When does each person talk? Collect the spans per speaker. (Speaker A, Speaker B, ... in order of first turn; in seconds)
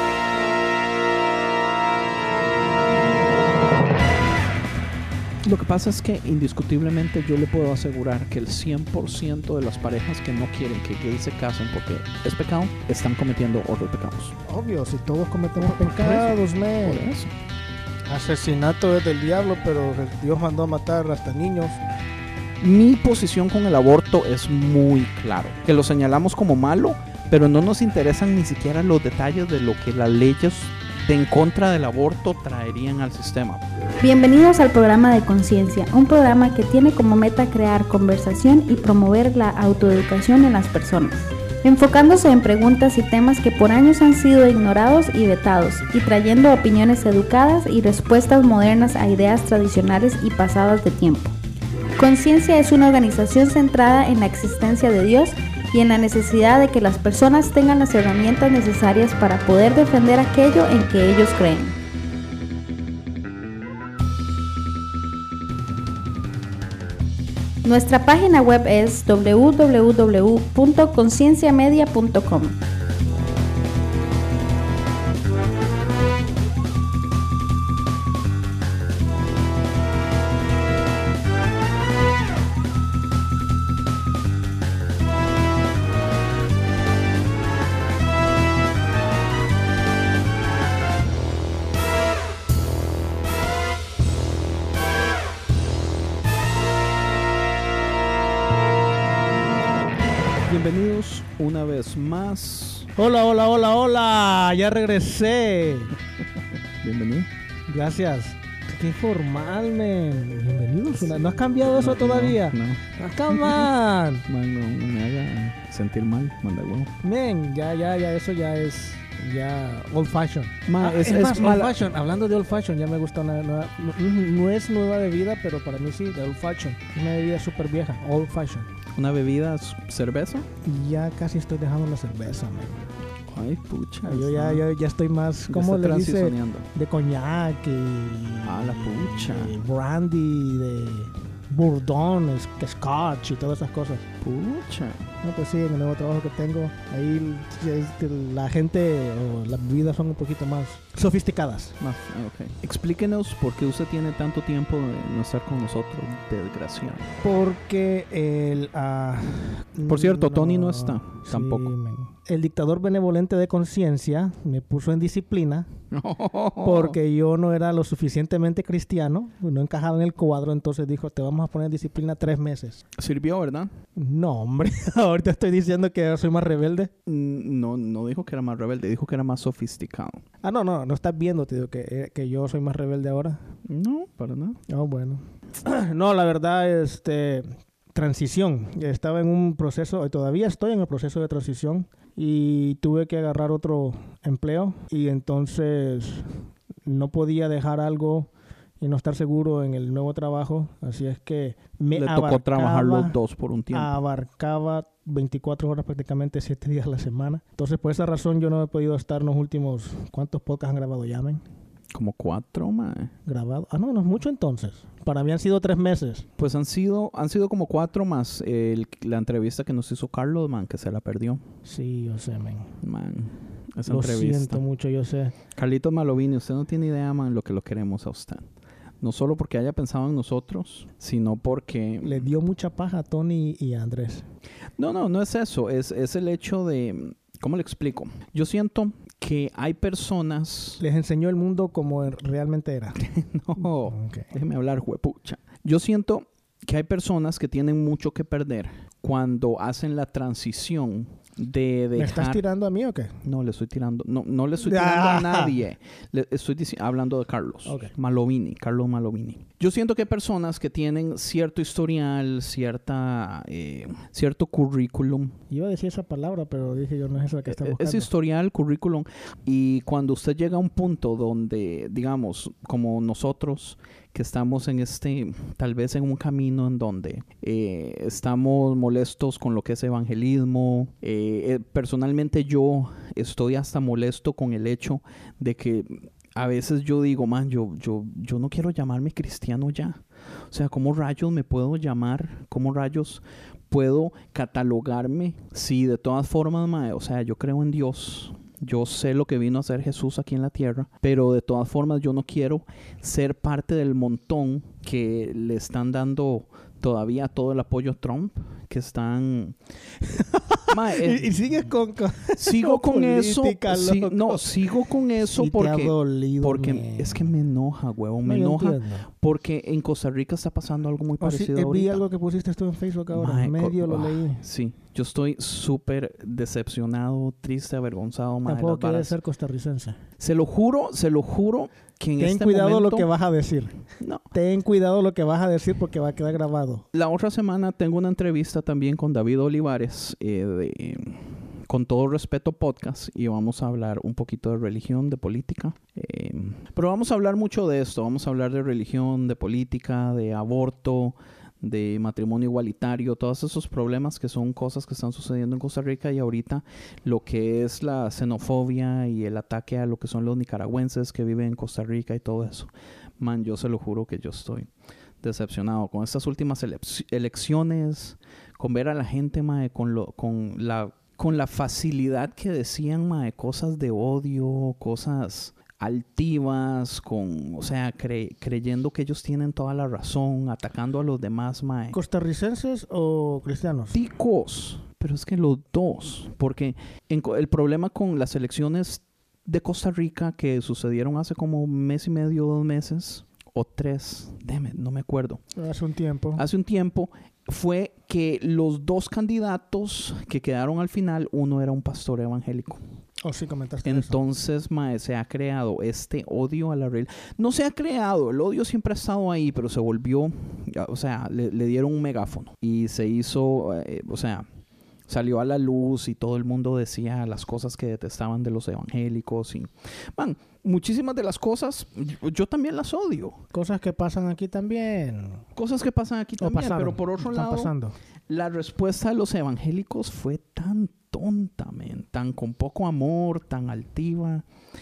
Speaker A: 5.4-14.4, 15.6-17.4, 22.6-33.6, 100.5-102.9, 106.8-107.3, 111.6-113.7, 114.3-116.9, 120.7-121.8, 128.9-130.5, 133.3-134.7, 135.5-136.7, 138.4-139.6, 144.2-145.1, 151.8-157.1, 159.9-161.7, 165.9-167.0, 173.0-173.7, 177.1-180.2, 183.7-184.6, 201.9-203.9, 211.9-213.1, 216.4-221.4, 222.8-224.6, 225.6-228.5, 229.0-232.2, 234.8-240.8, 243.0-252.4, 253.2-265.4, 267.5-309.6, 310.7-311.6, 312.4-322.0, 323.1-329.1, 330.2-333.1, 334.0-334.3, 336.9-364.7, 365.2-382.0, 383.9-395.4, 396.4-402.8, 403.8-414.4, 415.1-423.4, 425.6-427.7, 428.3-434.4
Speaker B: 14.4-17.1, 18.1-21.8, 103.0-106.0, 107.7-114.2, 117.0-128.7, 130.6-132.9, 134.0-144.0, 145.2-151.8, 157.2-165.7, 166.6-172.8, 173.9-176.9, 180.4-183.4, 184.7-203.2, 203.7-211.4, 213.2-216.3, 221.7-222.8, 223.8-225.3, 232.0-234.3, 240.8-243.0, 243.6-244.3, 252.0-253.1, 254.6-255.6, 257.6-257.9, 265.5-268.1, 310.1-317.3, 318.2-319.1, 321.2-324.4, 328.4-330.0, 332.2-333.7, 334.3-336.9, 381.9-384.0, 395.5-396.4, 403.2-404.2, 423.5-425.4, 426.4-427.9
Speaker C: 34.0-51.3, 52.0-61.8, 67.6-72.6